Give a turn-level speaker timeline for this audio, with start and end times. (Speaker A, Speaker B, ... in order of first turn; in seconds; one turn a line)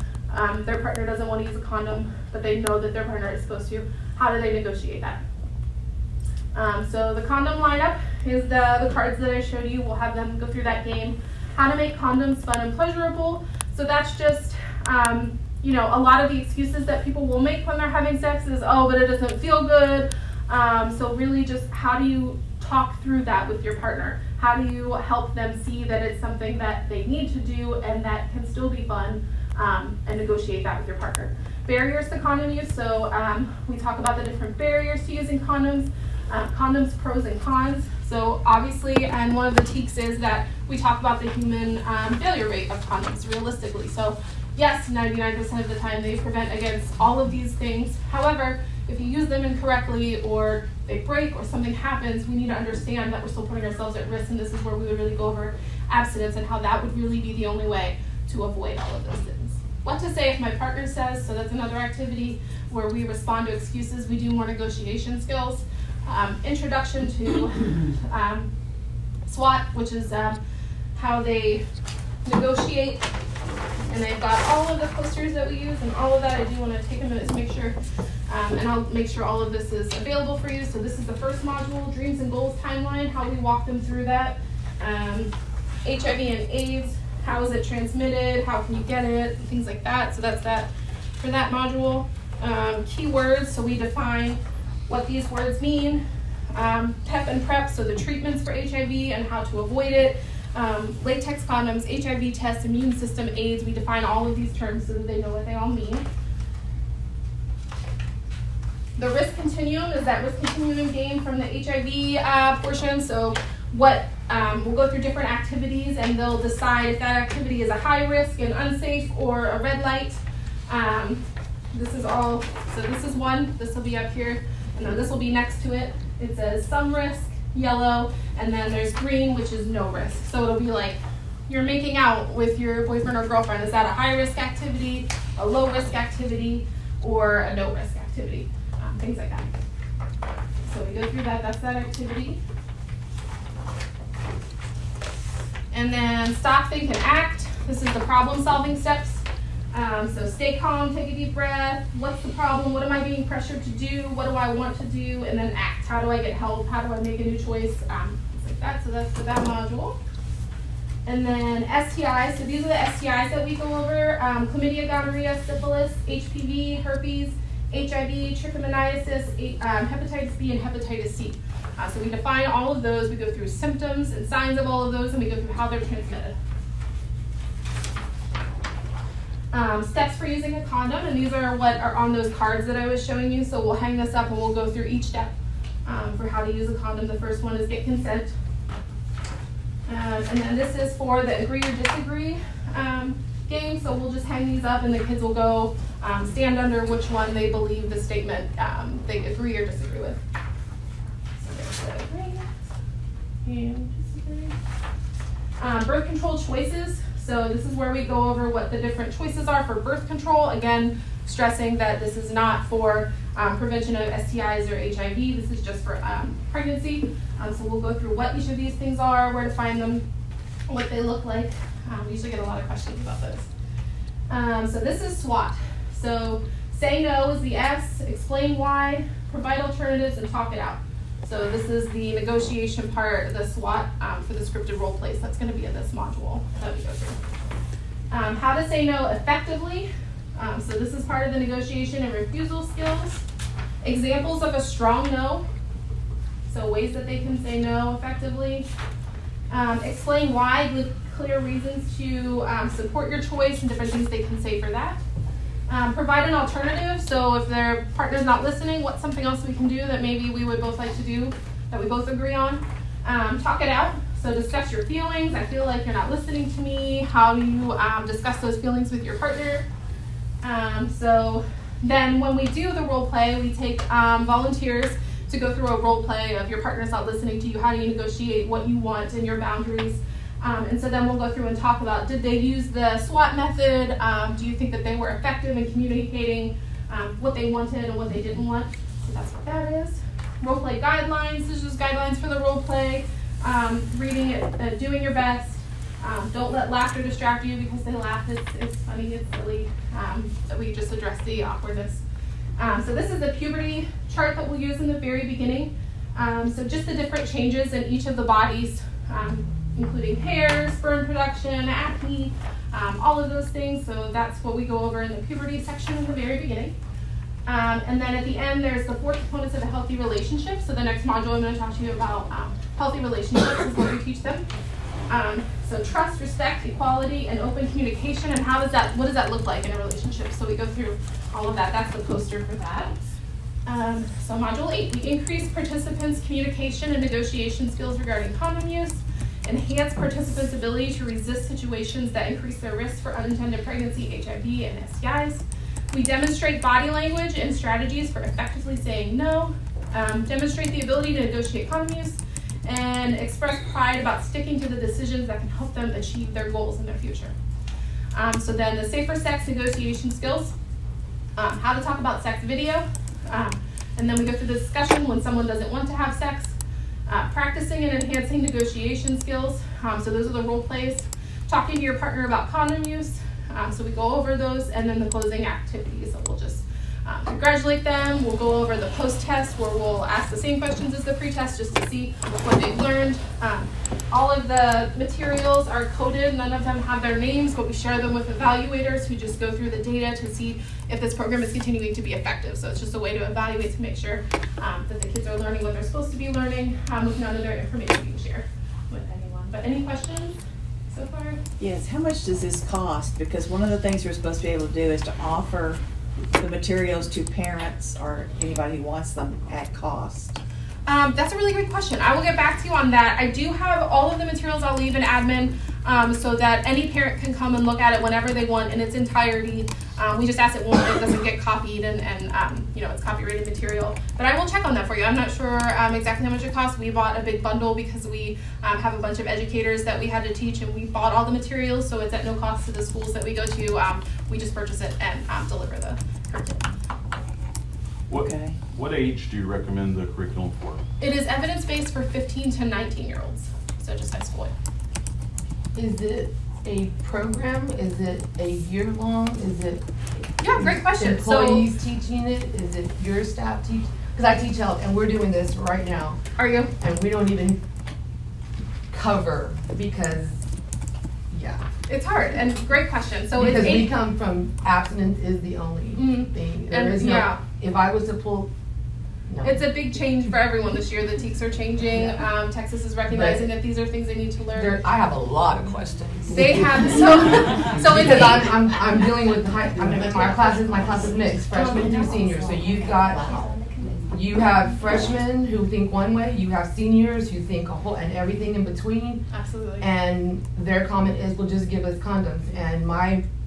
Speaker A: 0.3-5.2
Speaker A: 6.5-68.5
Speaker A: 69.2-70.4
Speaker A: 71.0-71.7
Speaker A: 72.2-73.1
Speaker A: 73.9-77.8
Speaker A: 78.3-85.3
Speaker A: 85.8-106.0
Speaker A: 109.0-139.5
Speaker A: 140.6-142.4
Speaker A: 145.7-160.0
Speaker A: 161.1-176.3
Speaker A: 179.5-185.3
Speaker A: 185.8-188.3
Speaker A: 189.9-200.2
Speaker A: 201.4-202.5
Speaker A: 203.4-204.5
Speaker A: 205.6-220.1
Speaker A: 220.7-223.5
Speaker A: 224.3-237.2
Speaker A: 238.1-243.2
Speaker A: 243.8-245.4
Speaker A: 246.5-248.7
Speaker A: 249.5-255.0
Speaker A: 255.7-269.6
Speaker A: 270.4-302.0
Speaker A: 302.6-316.7
Speaker A: 317.5-324.4
Speaker A: 325.1-332.9
Speaker A: 333.6-357.3
Speaker A: 358.1-360.5
Speaker A: 361.4-366.5
Speaker A: 367.1-400.4
Speaker A: 400.9-401.4
Speaker B: 401.6-405.8
Speaker B: 406.3-410.4
Speaker A: 410.9-436.6
Speaker C: 438.1-440.8
Speaker B: 438.2-438.6
Speaker A: 441.0-444.5
Speaker D: 445.7-449.8
Speaker A: 450.4-451.6
Speaker D: 450.4-456.2
Speaker A: 456.4-456.7
Speaker D: 456.8-457.6
Speaker D: 458.9-460.4
Speaker D: 461.3-461.6
Speaker A: 461.9-463.9
Speaker D: 463.4-468.5
Speaker A: 465.9-467.4
Speaker D: 469.3-469.7
Speaker A: 469.4-474.8
Speaker D: 473.1-473.5
Speaker D: 474.5-483.6
Speaker A: 476.3-478.5
Speaker D: 484.1-489.2
Speaker A: 489.3-489.9
Speaker D: 489.8-493.2